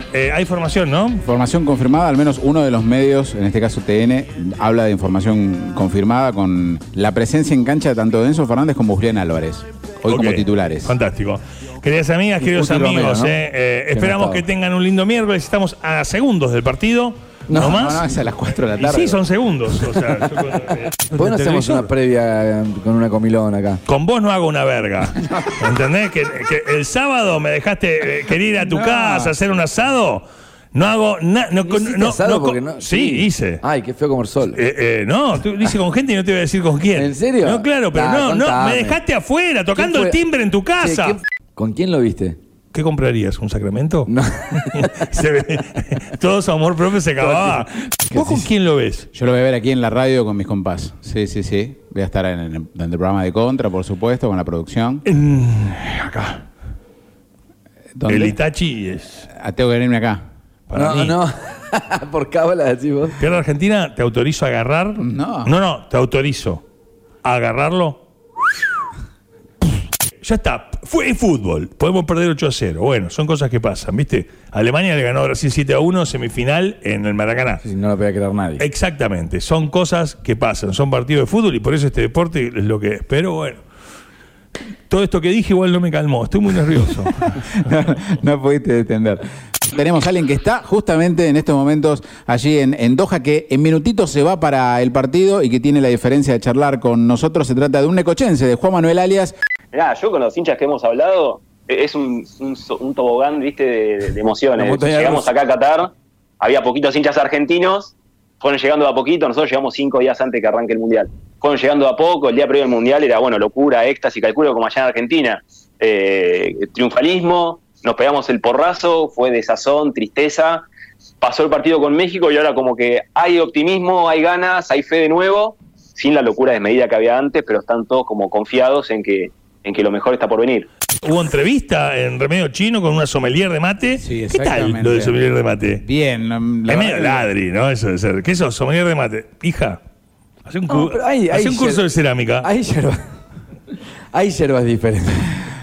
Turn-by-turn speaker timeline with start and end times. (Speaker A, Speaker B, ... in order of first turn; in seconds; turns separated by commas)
Speaker A: 0.1-1.2, Speaker B: 1.2-10.9, Speaker A: 10.1-18.1, Speaker C: 12.5-13.4, Speaker C: 13.9-14.4, Speaker C: 17.5-17.8, Speaker B: 17.6-19.2, Speaker A: 18.8-21.9, Speaker C: 21.1-23.8, Speaker A: 23.9-33.6, Speaker B: 28.7-29.3, Speaker C: 31.6-34.6, Speaker A: 34.5-41.2, Speaker C: 36.9-39.0, Speaker C: 39.7-40.2, Speaker C: 40.8-42.4, Speaker A: 42.7-49.1, Speaker C: 44.1-45.0, Speaker B: 48.2-48.4, Speaker B: 49.1-55.0, Speaker A: 55.1-56.4, Speaker B: 58.0-58.4, Speaker A: 58.1-59.3, Speaker B: 59.3-60.2, Speaker A: 60.7-61.2, Speaker C: 60.7-63.1, Speaker A: 63.2-66.6, Speaker B: 65.0-65.5, Speaker A: 67.2-68.0, Speaker A: 70.2-77.6, Speaker C: 77.6-78.6, Speaker A: 78.6-83.6, Speaker A: 84.9-87.2, Speaker B: 87.4-99.3, Speaker D: 99.7-120.7, Speaker C: 104.6-105.3, Speaker D: 121.2-130.7, Speaker A: 131.0-135.8, Speaker B: 134.0-135.2, Speaker B: 135.8-137.3, Speaker A: 136.7-139.8, Speaker A: 140.4-142.5, Speaker C: 140.7-141.8, Speaker C: 142.4-143.0, Speaker C: 144.1-145.4